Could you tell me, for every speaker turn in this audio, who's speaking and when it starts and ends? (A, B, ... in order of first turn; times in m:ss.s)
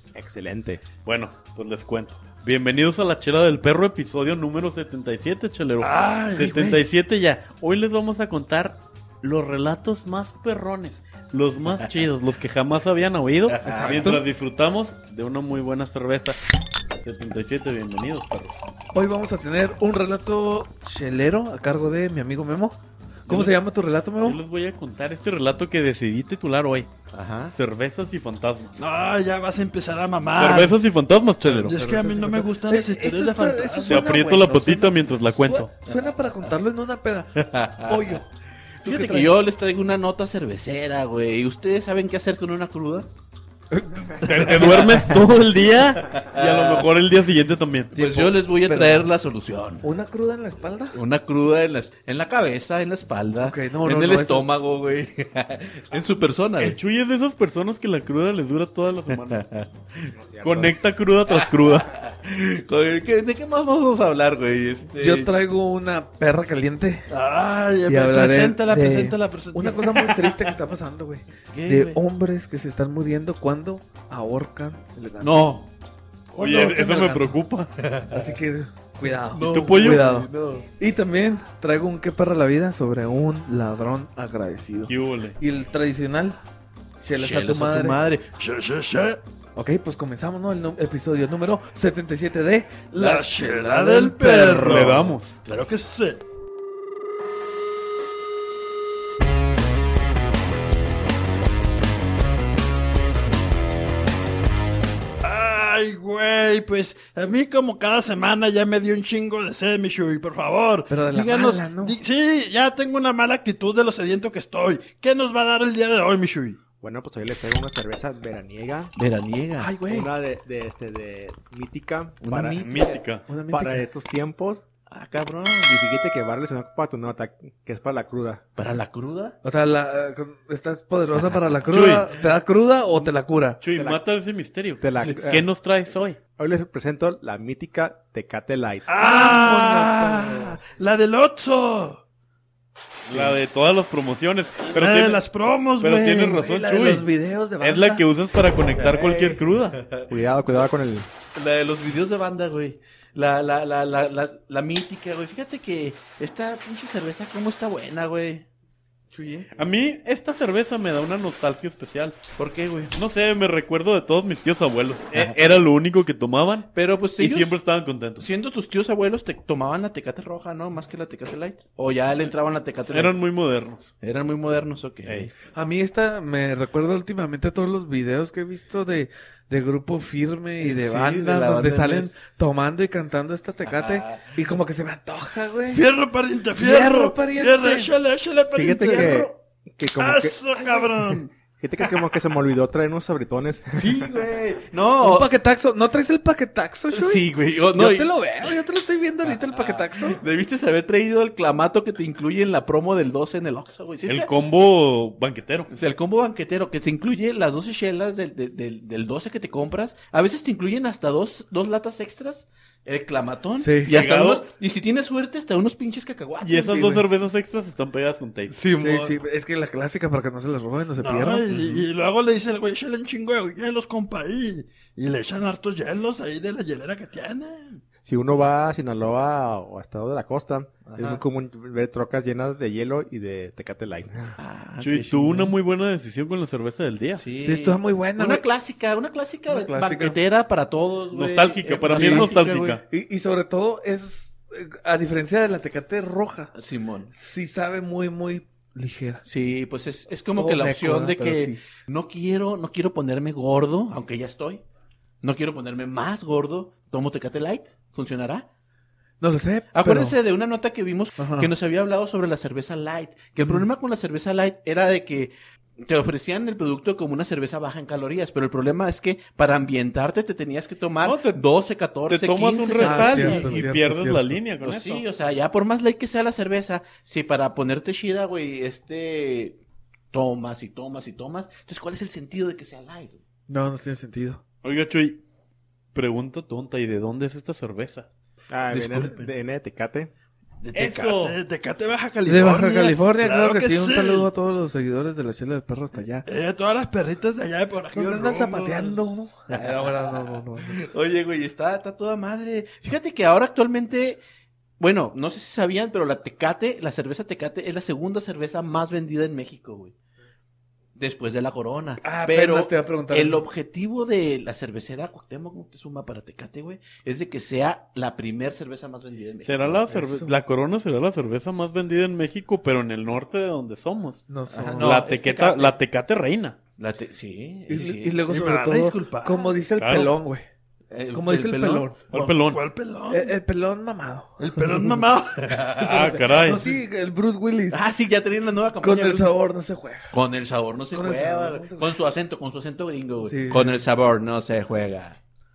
0:00.1-0:00.8 A
0:01.0-0:16.4 B
0:05.8-0:06.5 C
0:06.4-0:06.8 D
0:11.7-0:12.0 E
0:13.5-0:14.2 E
0:13.6-0:14.2 D
0:16.9-0:18.7 B
0:18.9-0:24.4 D
0:24.2-0:26.9 B
0:27.1-0:27.5 E
0:27.5-0:28.8 B
0:28.8-0:30.8 C
0:30.3-0:31.8 B
0:31.4-0:38.3 D
0:31.6-0:34.1 C
0:33.9-0:35.7 B
0:35.9-0:36.1 E
0:37.3-0:38.2 E
0:38.8-0:43.1 E
0:38.8-0:39.4 D
0:43.7-0:44.6 D
0:44.2-0:48.3 B
0:44.3-0:46.9 E
0:47.9-0:49.8 E
0:48.5-0:49.1 D
0:49.8-0:51.0 D
0:50.9-0:56.8 E
0:53.4-0:54.5 D
0:56.6-0:59.4 B
0:59.1-0:59.7 E
1:00.0-1:00.8 A
1:00.4-1:01.9 B
1:01.3-1:05.3 E
1:05.0-1:07.1 D
1:07.1-1:10.1 C
1:07.9-1:15.5 D
1:11.5-1:12.0 E
1:15.2-1:15.7 E
1:16.3-1:26.4 D
1:16.4-1:17.6 B
1:17.8-1:18.2 E
1:19.2-1:20.7 E
1:19.4-1:20.0 B
1:24.9-1:25.4 B
1:27.0-1:28.0 D
1:27.1-1:28.3 E
1:28.3-1:29.2 C
1:29.6-1:35.0 D
1:32.9-1:36.2 C
1:34.6-1:35.3 B
1:45.2-1:56.6 C
1:50.9-1:52.0 D
1:56.8-1:58.9 A
1:59.0-1:59.7 E
1:59.6-2:00.1 D
1:59.8-2:02.7 A
2:02.2-2:03.0 E
2:02.6-2:03.2 B
2:03.3-2:03.8 D
2:03.5-2:04.6 A
2:04.9-2:05.8 E
2:05.7-2:08.4 A
2:08.6-2:09.4 E
2:09.4-2:13.6 D
2:11.7-2:12.1 B
2:13.6-2:16.2 B
2:13.8-2:14.0 A
2:14.8-2:15.5 A
2:16.4-2:19.0 A
2:18.9-2:22.0 C
2:19.0-2:20.5 D
2:23.0-2:25.2 B
2:23.1-2:23.4 E
2:24.7-2:26.4 C
2:25.8-2:27.1 B
2:26.3-2:28.1 D
2:27.6-2:29.8 B
2:28.8-2:30.1 E
2:30.1-2:31.1 A
2:31.3-2:38.4 E
2:39.1-2:39.4 D
2:39.6-2:42.2 B
2:42.4-2:42.9 E
2:42.9-2:48.3 B
2:46.7-2:47.6 E
2:48.2-2:53.1 E
2:52.9-2:53.9 B
2:54.0-2:55.3 E
2:55.0-2:55.3 B
2:55.5-3:05.8 D
3:00.6-3:02.1 E
3:03.6-3:04.4 E
3:05.7-3:09.2 C
3:06.5-3:07.9 D
3:08.5-3:10.4 A
3:08.8-3:09.3 D
3:10.0-3:11.3 C
3:10.6-3:10.8 D
3:11.6-3:14.1 A
3:13.7-3:15.3 E
3:15.0-3:20.2 D
3:16.9-3:18.5 E
3:19.5-3:24.3 E
3:24.1-3:25.7 B
3:25.7-3:37.0 E
3:33.6-3:34.0 D
3:33.9-3:34.5 B
3:36.4-3:38.5 B
3:36.6-3:37.0 D
3:38.5-3:39.1 E
3:38.5-3:38.9 C
3:38.8-3:41.5 D
3:41.0-3:47.8 C
3:48.0-3:54.3 A
3:50.8-3:51.2 E
3:54.4-3:55.5 E
3:54.8-3:57.2 B
3:57.2-4:02.8 E
3:57.4-3:58.4 D
3:59.5-4:00.2 D
4:01.1-4:02.8 B
4:01.9-4:02.4 D
4:02.9-4:06.5 D
4:06.5-4:07.1 E
4:07.1-4:09.2 D
4:09.2-4:14.6 E
4:10.3-4:11.6 D
4:15.2-4:18.5 E
4:19.2-4:20.2 D
4:19.7-4:33.7 E
4:21.2-4:21.5 D
4:31.0-4:31.4 B
4:32.1-4:35.0 B
4:32.8-4:34.4 D
4:34.6-4:39.6 E
4:40.1-4:43.2 E
4:43.5-4:44.4 D
4:44.6-4:45.2 B
4:45.9-4:48.1 B
4:48.5-4:50.1 A
4:48.7-4:49.3 E
4:50.6-4:54.3 C
4:50.7-4:51.4 B
4:52.2-4:56.2 D
4:56.2-4:59.0 C
4:57.9-5:00.9 D
4:59.5-5:04.2 E
5:04.8-5:09.9 E
5:11.0-5:19.8 E
5:12.0-5:13.4 D
5:19.4-5:24.3 B
5:19.9-5:20.3 D
5:24.3-5:25.0 D
5:24.5-5:25.8 E
5:24.8-5:26.6 B
5:26.8-5:28.2 E
5:27.7-5:30.4 D
5:28.3-5:29.5 C
5:29.8-5:30.1 B
5:30.9-5:31.9 E
5:31.1-5:32.3 D
5:32.1-5:32.6 B
5:32.4-5:33.4 C
5:33.1-5:34.9 D
5:34.4-5:35.5 C
5:35.4-5:36.1 E
5:35.8-5:36.6 B
5:35.8-5:37.8 D
5:37.7-5:39.3 E
5:38.8-5:40.1 D
5:40.1-5:45.2 E
5:40.9-5:41.9 D
5:43.3-5:43.8 D